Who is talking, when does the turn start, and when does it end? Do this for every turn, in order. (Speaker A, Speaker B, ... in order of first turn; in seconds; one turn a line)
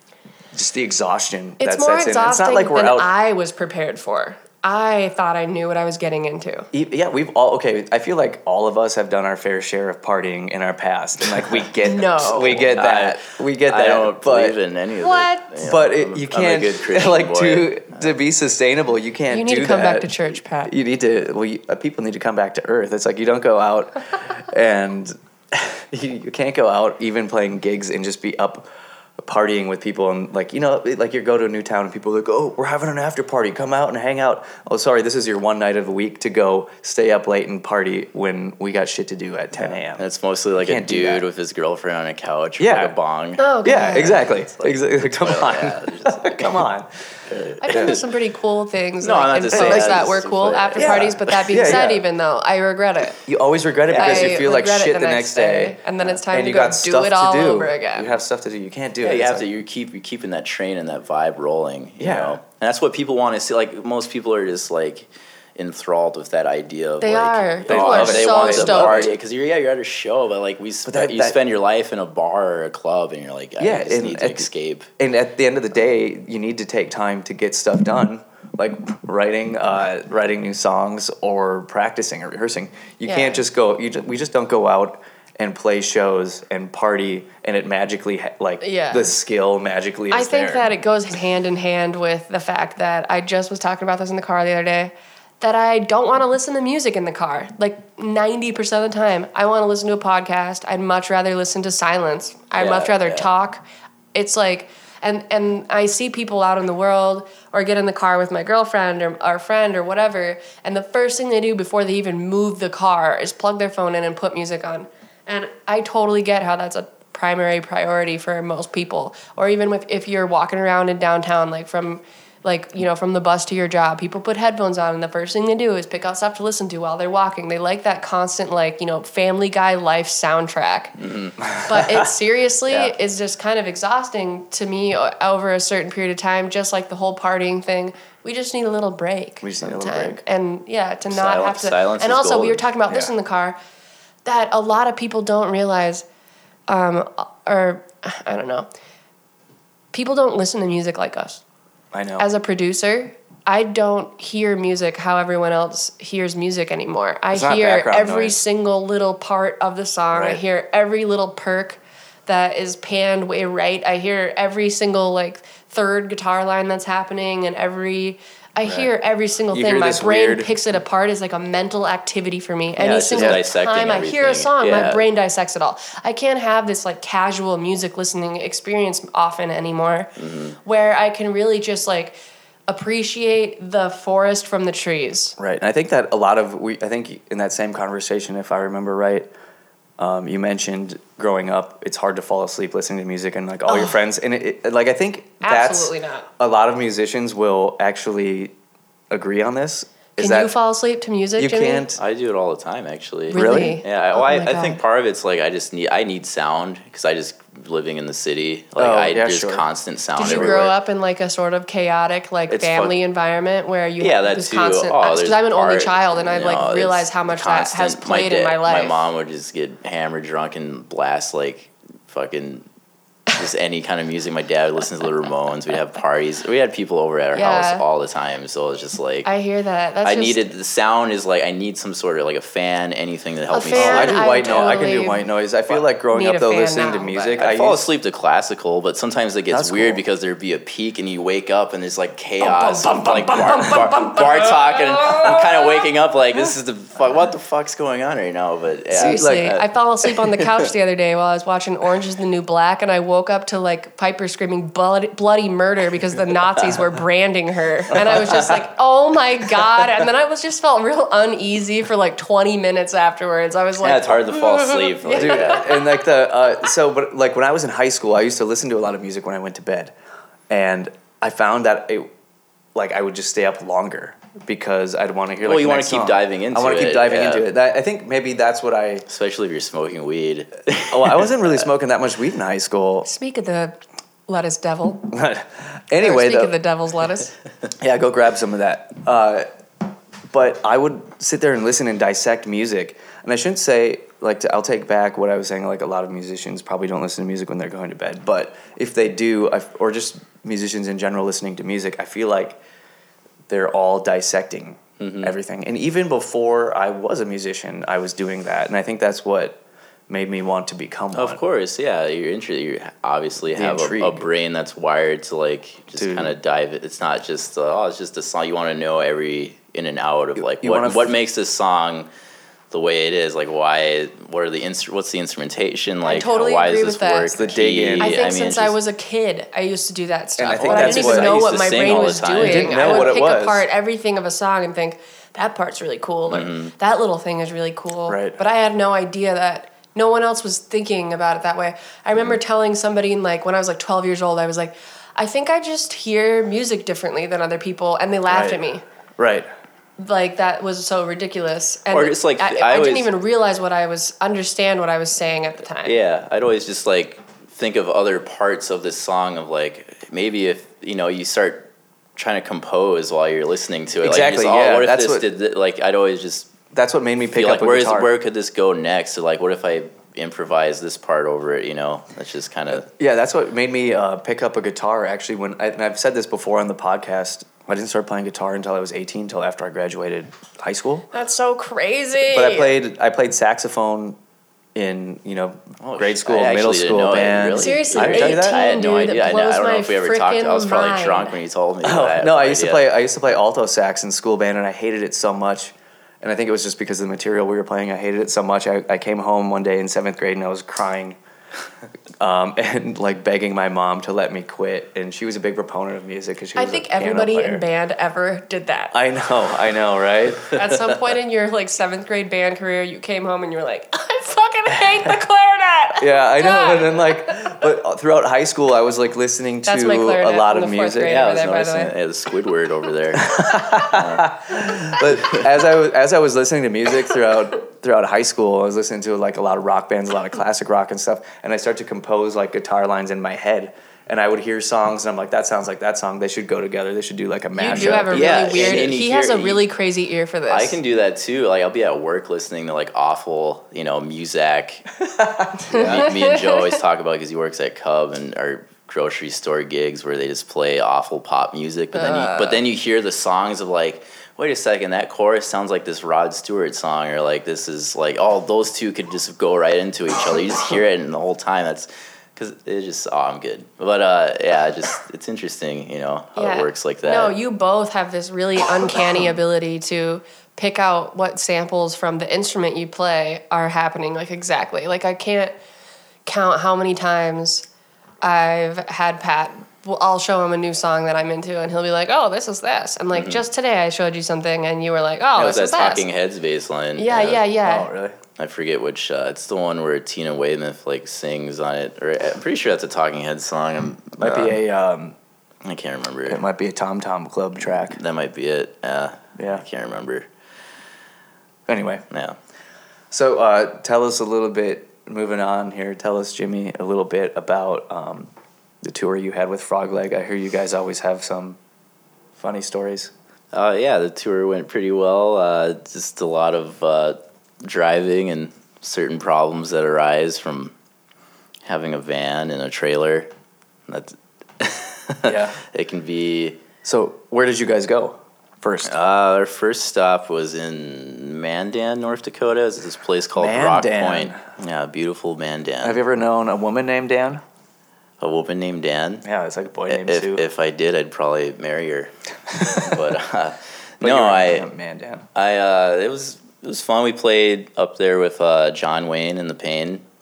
Speaker A: 0.5-3.1
Speaker B: 1.6-6.7
Speaker A: 6.7-14.6
Speaker B: 11.8-12.6
Speaker C: 12.2-18.1
Speaker B: 15.0-15.5
Speaker A: 15.6-40.0
Speaker B: 19.3-20.7
Speaker C: 39.5-46.7
Speaker A: 40.6-41.2
Speaker A: 42.6-42.9
Speaker B: 43.4-44.2
Speaker A: 43.6-48.0
Speaker C: 47.2-48.1
Speaker B: 47.6-53.2
Speaker C: 49.0-51.7
Speaker A: 49.5-50.1
Speaker A: 50.7-52.0
Speaker A: 53.2-59.5
Speaker C: 53.9-54.4
Speaker B: 53.9-58.1
Speaker C: 59.0-74.9
Speaker A: 62.0-62.4
Speaker B: 67.0-69.1
Speaker A: 67.7-69.1
Speaker A: 70.8-71.4
Speaker A: 73.6-74.5
Speaker A: 75.0-90.7
Speaker B: 83.0-83.4
Speaker B: 88.6-89.1
Speaker B: 90.1-130.9
Speaker C: 102.6-103.3
Speaker C: 131.0-131.3
Speaker A: 131.4-132.0
Speaker B: 131.7-143.6
Speaker A: 139.4-140.2
Speaker C: 141.0-142.7
Speaker A: 142.9-143.1
Speaker B: 144.2-146.0
Speaker B: 146.7-148.7
Speaker B: 149.9-151.4
Speaker A: 151.9-152.3
Speaker B: 152.2-180.1
Speaker A: 157.3-158.4
Speaker A: 160.1-160.4
Speaker A: 168.6-168.9
Speaker A: 169.5-170.5
Speaker C: 172.8-175.0
Speaker A: 173.1-173.4
Speaker C: 180.2-180.6
Speaker B: 180.6-182.2
Speaker B: 182.7-185.3
Speaker A: 185.4-189.3
Speaker A: 190.0-198.5
Speaker B: 193.7-194.0
Speaker B: 195.4-196.3
Speaker A: 199.1-200.5
Speaker B: 200.2-201.9
Speaker A: 201.4-202.0
Speaker C: 202.0-210.7
Speaker B: 203.3-204.8
Speaker A: 203.3-203.8
Speaker A: 208.8-209.6
Speaker B: 210.2-219.0
Speaker A: 210.2-210.7
Speaker C: 212.5-212.9
Speaker C: 214.0-222.7
Speaker C: 223.3-229.3
Speaker B: 227.3-227.8
Speaker B: 229.2-230.5
Speaker C: 230.0-234.7
Speaker B: 233.5-235.2
Speaker A: 233.7-237.9
Speaker B: 236.1-237.4
Speaker C: 237.4-250.7
Speaker A: 239.5-240.0
Speaker B: 242.4-245.4
Speaker A: 248.9-249.5
Speaker B: 248.9-265.8
Speaker C: 258.1-258.5
Speaker C: 263.8-265.7
Speaker A: 265.1-269.9
Speaker A: 270.5-272.1
Speaker A: 272.7-279.1
Speaker C: 275.4-277.5
Speaker C: 279.1-281.5
Speaker A: 280.9-283.1
Speaker B: 283.1-285.1
Speaker A: 285.1-286.5
Speaker B: 286.0-287.3
Speaker A: 287.8-289.5
Speaker A: 290.3-302.6
Speaker A: 303.5-311.4
Speaker C: 305.0-305.3
Speaker C: 311.1-322.1
Speaker A: 313.5-314.3
Speaker A: 316.0-316.3
Speaker A: 320.4-321.1
Speaker C: 322.7-328.8
Speaker B: 326.0-348.8
Speaker A: 327.3-328.2
Speaker A: 330.4-333.6
Speaker C: 330.5-333.0
Speaker C: 336.3-336.7
Speaker A: 338.1-338.4
Speaker A: 348.3-348.6
Speaker A: 349.2-349.5
Speaker B: 350.0-356.0
Speaker C: 351.9-353.1
Speaker C: 355.8-366.5
Speaker A: 364.0-365.2
Speaker A: 366.7-368.1
Speaker C: 367.4-372.9
Speaker A: 372.7-381.1
Speaker B: 381.1-382.7
Speaker A: 382.3-384.2
Speaker A: 384.7-388.6
Speaker C: 385.8-392.8
Speaker B: 387.6-391.3
Speaker A: 391.8-401.2
Speaker A: 402.2-407.6
Speaker B: 406.6-408.9
Speaker A: 408.9-410.5
Speaker B: 410.5-417.6
Speaker A: 416.0-421.2
Speaker B: 419.7-421.9
Speaker C: 421.1-425.4
Speaker A: 423.2-438.9
Speaker B: 437.5-440.8
Speaker C: 437.7-439.6
Speaker C: 440.5-444.9
Speaker A: 445.0-446.1
Speaker C: 445.7-467.3
Speaker B: 445.8-446.6
Speaker B: 451.9-452.6
Speaker B: 466.4-475.5
Speaker B: 476.2-477.7
Speaker B: 478.2-486.0
Speaker C: 483.1-483.4
Speaker C: 485.3-487.4
Speaker B: 487.0-487.9
Speaker A: 487.6-488.2
Speaker C: 488.4-494.6
Speaker A: 494.2-495.1
Speaker C: 495.6-496.4
Speaker A: 496.3-498.0
Speaker C: 497.6-500.3
Speaker A: 499.4-499.6
Speaker A: 501.7-502.0
Speaker C: 502.1-502.4
Speaker A: 503.1-508.3
Speaker A: 508.8-511.6
Speaker A: 512.4-513.1
Speaker C: 513.5-520.7
Speaker C: 521.6-523.3
Speaker C: 523.9-526.6
Speaker A: 525.2-525.6
Speaker A: 526.8-529.0
Speaker C: 528.8-536.0
Speaker A: 533.4-534.4
Speaker A: 535.8-537.4
Speaker C: 538.2-539.2
Speaker A: 539.2-540.5
Speaker C: 539.9-542.1
Speaker A: 542.5-543.0
Speaker C: 542.6-544.7
Speaker A: 544.0-545.2
Speaker C: 545.3-550.0